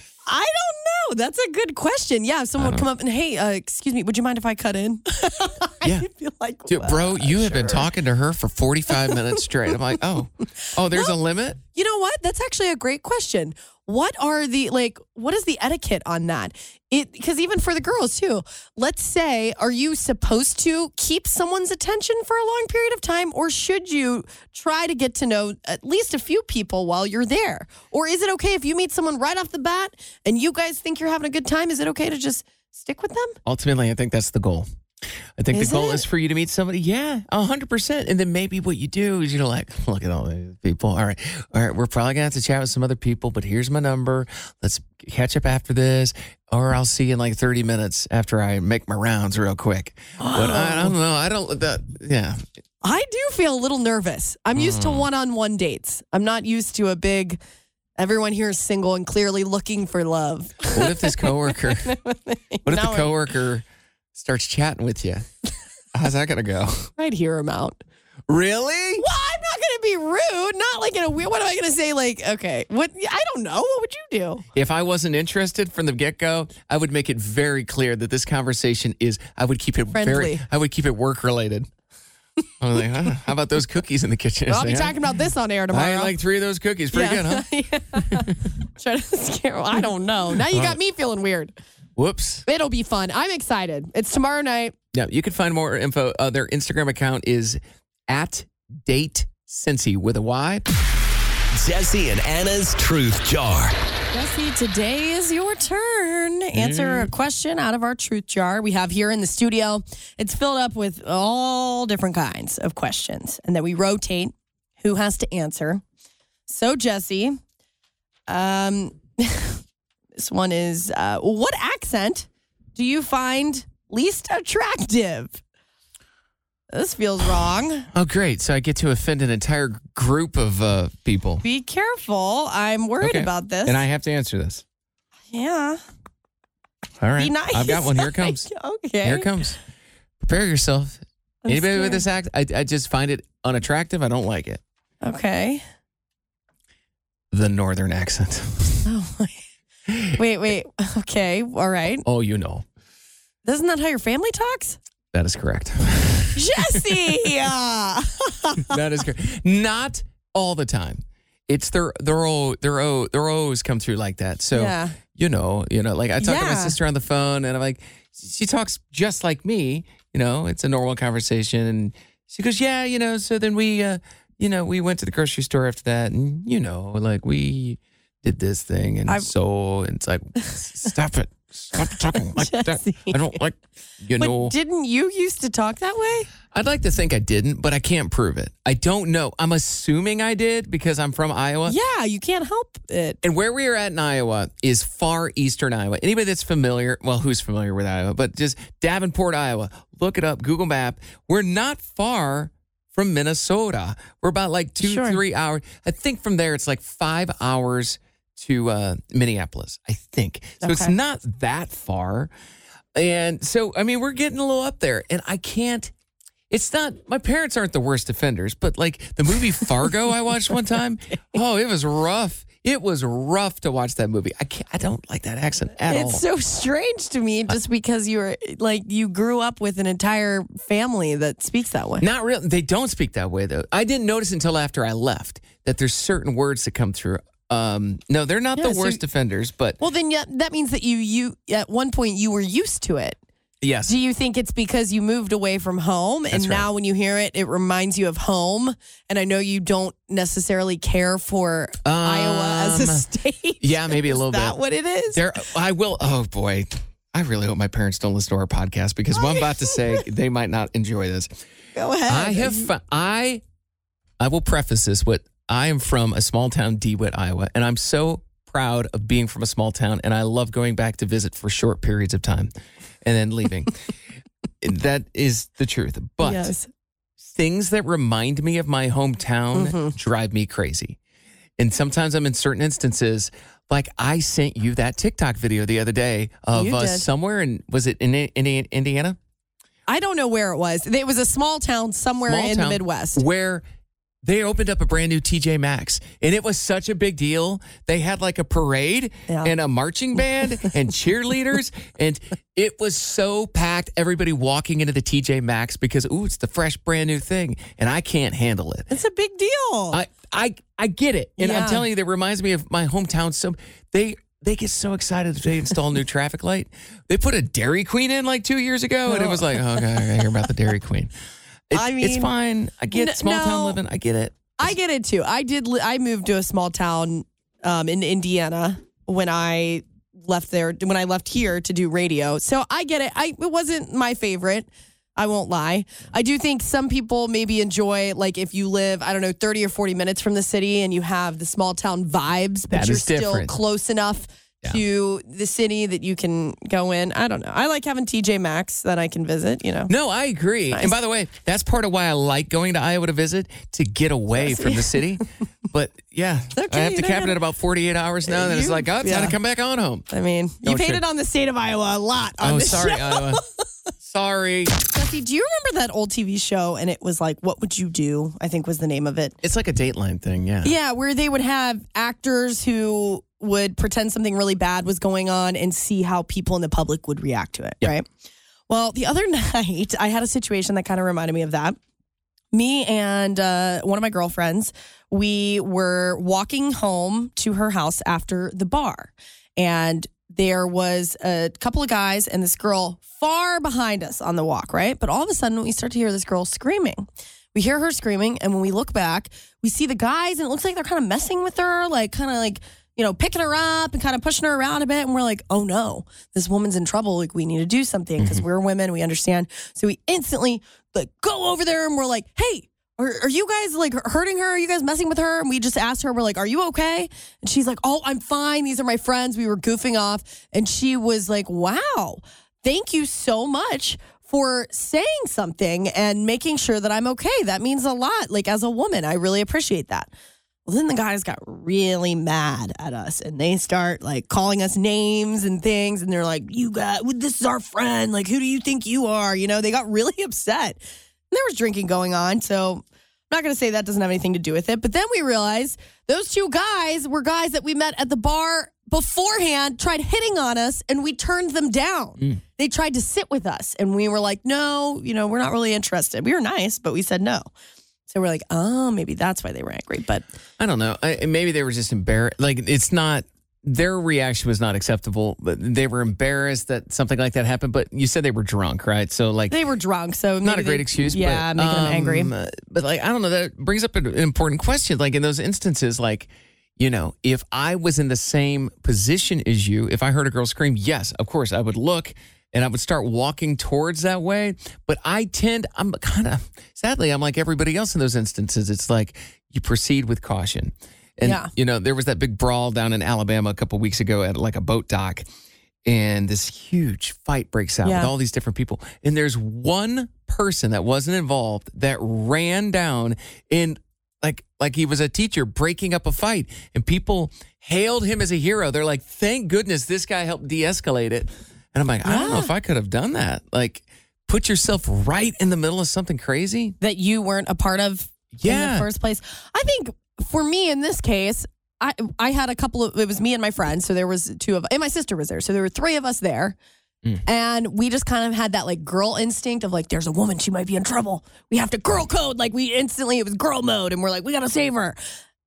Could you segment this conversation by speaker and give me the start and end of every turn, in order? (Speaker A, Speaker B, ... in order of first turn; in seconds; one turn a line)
Speaker A: 0.3-7.9
Speaker B: 2.6-2.9
Speaker B: 6.7-11.6
Speaker A: 11.8-33.4
Speaker B: 33.5-34.7
Speaker B: 35.4-52.4
Speaker A: 35.5-36.0
Speaker A: 50.2-51.0
Speaker A: 52.8-57.4
Speaker B: 54.5-55.1
Speaker A: 58.0-63.1
Speaker B: 60.7-62.0
Speaker B: 62.7-65.3
Speaker B: 65.9-66.9
Speaker A: 67.0-67.8
Speaker B: 68.3-69.1
Speaker A: 69.0-74.5
Speaker B: 74.5-81.7
Speaker A: 79.9-80.4
Speaker B: 82.6-85.0
Speaker A: 84.5-86.1
Speaker B: 85.7-87.5
Speaker A: 86.9-91.5
Speaker B: 88.0-88.3
Speaker B: 90.5-90.8
Speaker B: 92.0-92.5
Speaker A: 92.5-94.8
Speaker B: 94.9-100.6
Speaker C: 101.5-103.8
Speaker A: 104.1-115.8
Speaker B: 106.5-107.1
Speaker A: 116.5-117.4
Speaker A: 118.3-119.6
Speaker A: 120.2-125.4
Speaker A: 126.7-127.9
Speaker B: 127.9-131.4
Speaker A: 131.4-133.8
Speaker B: 133.0-134.6
Speaker A: 135.3-135.8
Speaker B: 137.0-138.5
Speaker A: 137.2-139.3
Speaker B: 139.0-139.6
Speaker B: 140.2-144.6
Speaker A: 141.4-142.0
Speaker A: 145.0-145.6
Speaker B: 147.3-148.9
Speaker A: 148.8-149.4
Speaker B: 149.9-150.2
Speaker A: 150.2-152.1
Speaker B: 152.1-152.7
Speaker A: 153.4-154.8
Speaker B: 155.1-156.9
Speaker A: 156.4-158.8
Speaker B: 158.7-184.6
Speaker A: 164.5-165.0
Speaker A: 166.2-166.8
Speaker A: 182.3-183.2
Speaker A: 184.2-186.3
Speaker B: 186.5-191.8
Speaker A: 191.7-193.2
Speaker B: 193.2-212.3
Speaker A: 204.8-205.2
Speaker A: 210.6-210.9
Speaker B: 212.9-215.9
Speaker B: 216.5-226.2
Speaker A: 225.9-232.1
Speaker B: 232.0-239.8
Speaker A: 238.6-239.0
Speaker A: 239.8-243.2
Speaker B: 243.6-243.9
Speaker A: 243.9-255.2
Speaker B: 246.3-246.7
Speaker B: 251.8-253.1
Speaker B: 253.6-254.6
Speaker B: 255.1-261.3
Speaker A: 259.2-259.8
Speaker A: 261.8-262.7
Speaker B: 262.1-263.4
Speaker B: 264.2-272.5
Speaker B: 273.0-273.8
Speaker B: 274.6-276.5
Speaker A: 276.2-276.7
Speaker B: 277.2-281.0
Speaker A: 279.6-279.9
Speaker B: 281.6-289.2
Speaker A: 286.5-287.1
Speaker A: 289.9-293.2
Speaker B: 292.3-293.6
Speaker B: 294.2-308.9
Speaker A: 308.9-310.0
Speaker B: 309.9-321.1
Speaker A: 311.4-311.8
Speaker A: 319.1-319.6
Speaker B: 321.7-324.8
Speaker A: 321.7-322.3
Speaker A: 322.9-323.8
Speaker A: 324.6-349.9
Speaker B: 342.7-343.6
Speaker B: 349.9-360.1
Speaker A: 354.4-355.0
Speaker A: 356.6-357.4
Speaker A: 358.3-359.4
Speaker A: 360.1-363.4
Speaker B: 360.6-361.0
Speaker B: 362.4-363.4
Speaker B: 364.0-364.8
Speaker A: 364.9-369.4
Speaker B: 369.4-370.8
Speaker A: 370.6-378.1
Speaker A: 378.7-381.8
Speaker A: 382.5-430.1
Speaker B: 408.2-408.4
Speaker A: 430.7-440.8
Speaker A: 441.3-457.5
Speaker A: 458.1-460.3
Speaker B: 460.6-469.6
Speaker A: 469.5-472.3
Speaker B: 470.4-495.3
Speaker A: 491.2-491.5
Speaker B: 495.9-516.8
Speaker A: 497.8-498.1
Speaker A: 512.0-512.5
Speaker A: 516.8-526.6
Speaker B: 518.3-518.9
Speaker A: 527.3-535.0